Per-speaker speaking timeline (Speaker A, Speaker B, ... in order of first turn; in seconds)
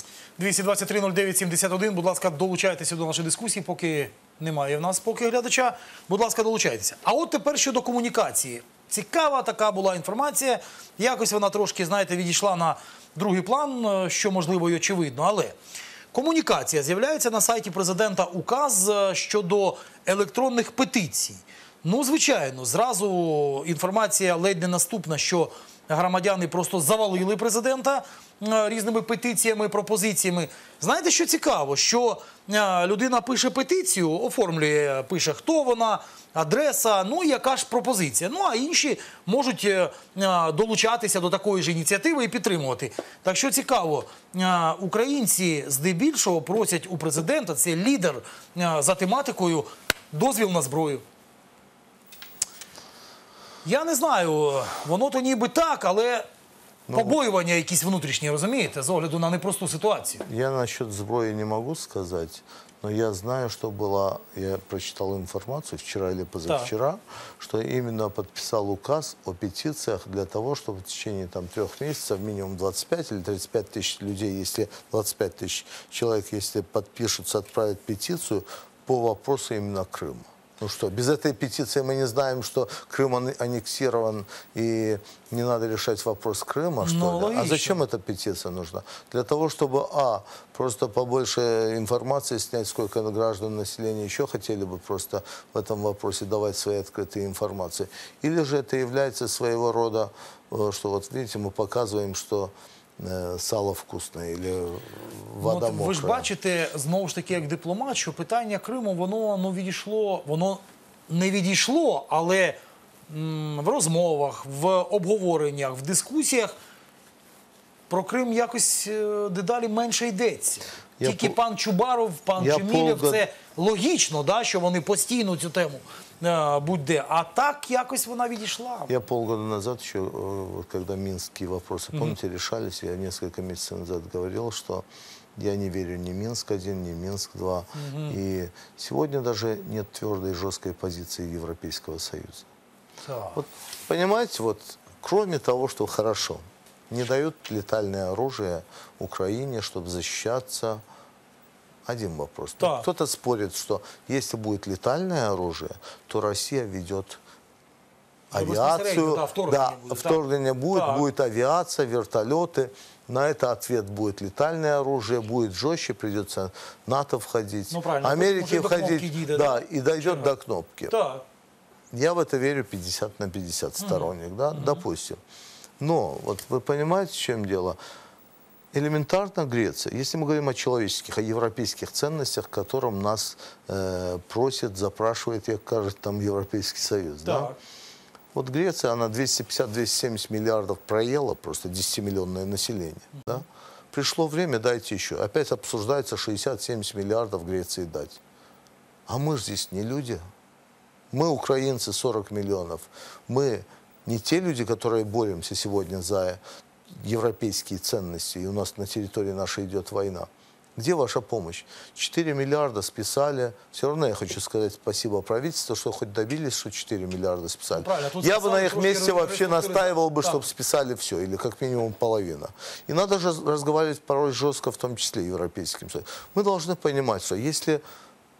Speaker A: 0.4-15.6, 16.1-51.0, 53.6-56.3, 56.9-60.2, 86.8-87.8, 105.4-112.6, 113.1-116.5, 117.9-128.9, 137.7-138.2, 143.0-143.4, 152.6-152.9, 158.3-160.2, 160.7-161.1, 167.7-170.3, 170.9-171.2, 173.8-174.8, 187.2-187.6, 193.1-193.4, 217.7-220.4
Speaker B: 56.9-57.2, 60.2-106.3, 121.0-121.4, 122.4-123.2, 128.9-142.5, 143.3-150.8, 151.8-157.2, 158.3-171.0, 171.9-175.2, 175.8-177.8, 178.7-187.6, 188.3-198.2, 199.1-200.3, 201.1-227.8